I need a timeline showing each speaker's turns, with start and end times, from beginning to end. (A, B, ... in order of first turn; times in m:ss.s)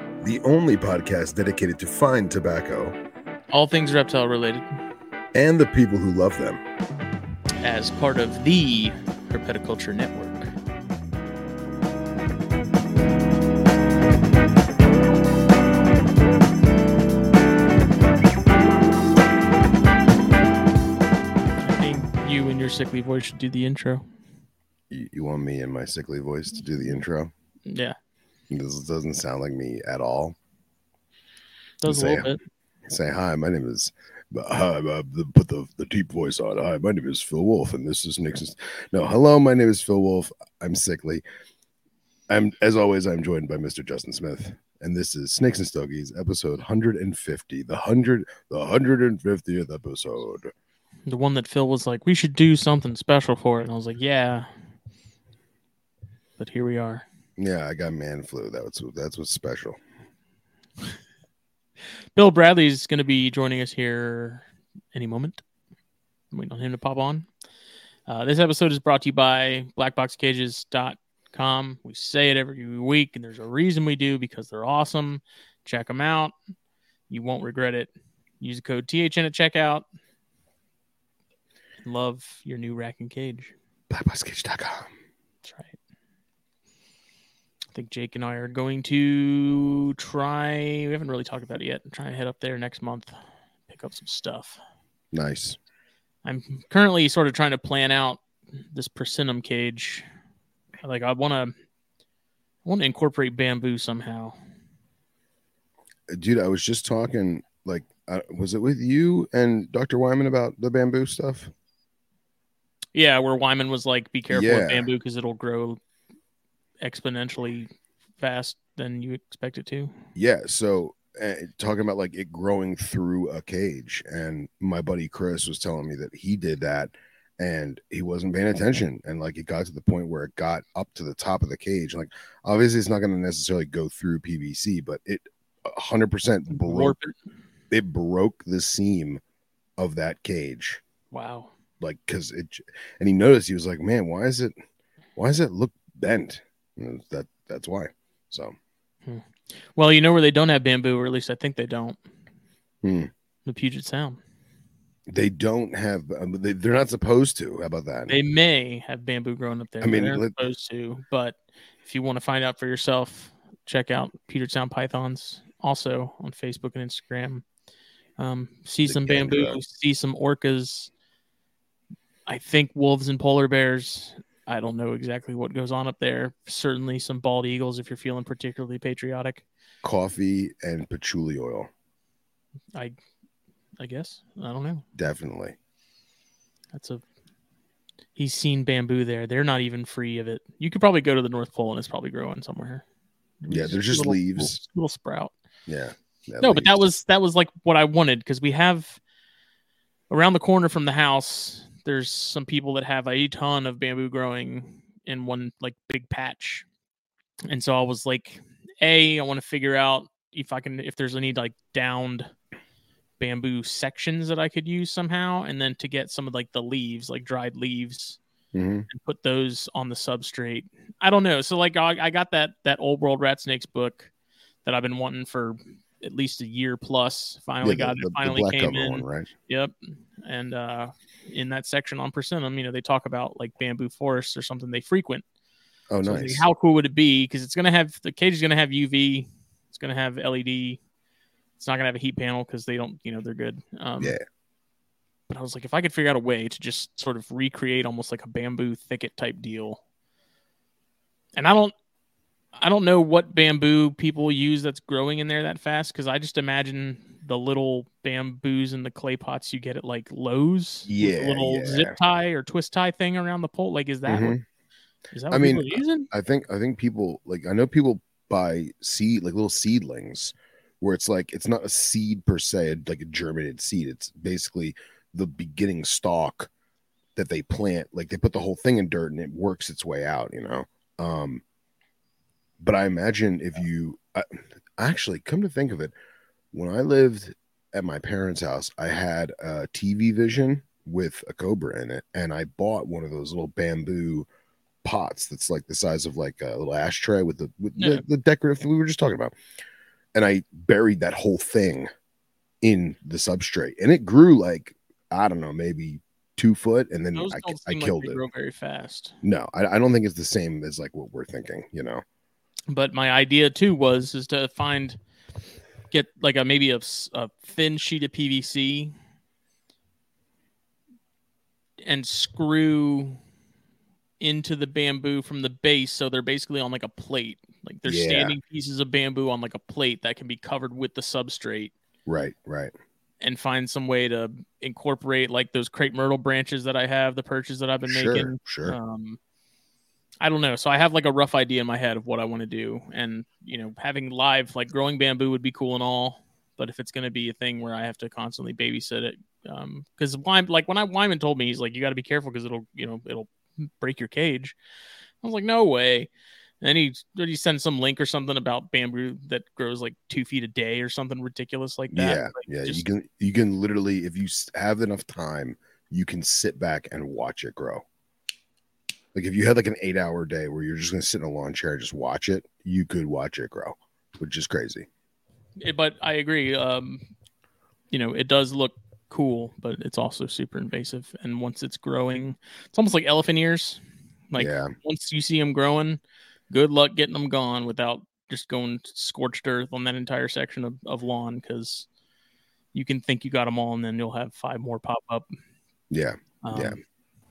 0:00.2-0:03.0 A
0:03.5-0:04.6 B
0:05.3-0:06.6 A
0:07.6-0:10.5 B
0:21.6-0:24.1 B
0:24.9-0:27.3 A
0:27.7-0:28.0 B
0:28.5-0:30.4 A
0:31.8-0:32.4 B
0:31.9-0:32.3 A
0:32.9-0:41.2 A
0:42.3-0:50.5 A
0:51.1-0:54.7 B
0:56.4-0:57.0 B
0:57.4-0:59.8 A
1:02.2-1:05.4 B
1:06.3-1:07.3 B
1:08.1-1:16.3 B
1:17.1-1:19.9 B
1:21.8-1:23.5 B
1:23.9-1:24.9 A
1:25.4-1:25.8 B
1:27.7-1:34.6 B
1:35.1-1:35.6 A
1:36.2-1:40.1 B
1:40.8-1:41.5 B
1:42.6-1:44.4 B
1:46.1-1:51.5 A
1:53.0-1:55.8 B
1:54.3-1:54.9 A
1:56.8-2:00.0 B
2:00.2-2:17.0 A
2:16.5-2:17.2 B
2:17.7-2:19.2 A
2:19.8-2:20.8 A
2:21.1-2:21.5 B
2:21.8-2:24.5 A
2:25.2-2:28.6 A
2:29.1-2:32.0 B
2:32.8-2:33.1 A
2:33.5-2:34.2 B
2:35.1-2:38.2 A
2:38.1-2:47.4 B
2:39.8-2:40.4 A
2:48.2-2:50.9 B
2:48.9-2:49.6 A
2:52.2-2:59.4 B
2:59.8-3:01.7 A
3:03.8-3:04.8 B
3:05.0-3:05.5 A
3:06.7-3:07.0 B
3:08.2-3:12.8 B
3:13.4-3:15.3 B
3:13.5-3:14.6 A
3:15.7-3:16.8 A
3:16.4-3:19.0 B
3:20.1-3:26.7 B
3:27.5-3:32.3 B
3:33.2-3:38.2 B
3:38.5-3:38.9 A
3:38.9-3:44.1 B
3:44.6-3:55.2 B
3:47.6-3:49.3 A
3:55.9-3:56.4 A
3:56.0-4:00.8 B
4:01.6-4:04.2 B
4:05.3-4:09.8 B
4:11.4-4:11.7 B
4:12.6-4:24.4 B
4:20.8-4:22.0 A
4:24.1-4:24.4 A
4:25.1-4:26.1 B
4:25.3-4:36.5 A
4:37.2-4:41.4 A
4:42.6-4:45.9 A
4:46.5-4:54.3 A
4:54.8-4:59.3 A
4:57.8-4:58.0 B
5:00.1-5:01.9 A
5:02.6-5:08.2 A
5:07.1-5:09.2 B
5:09.2-5:12.0 A
5:12.7-5:15.0 B
5:15.9-5:18.9 B
5:21.8-5:23.2 B
5:24.2-5:31.7 B
5:27.8-5:28.4 A
5:32.0-5:32.7 A
5:33.2-5:39.2 B
5:37.8-5:38.8 A
5:40.2-5:54.6 B
5:55.2-6:02.8 B
6:01.9-6:07.8 A
6:09.1-6:14.9 A
6:15.6-6:17.0 B
6:17.9-6:31.9 B
6:24.4-6:24.7 A
6:32.7-6:35.3 B
6:35.9-6:36.8 A
6:36.4-6:36.8 B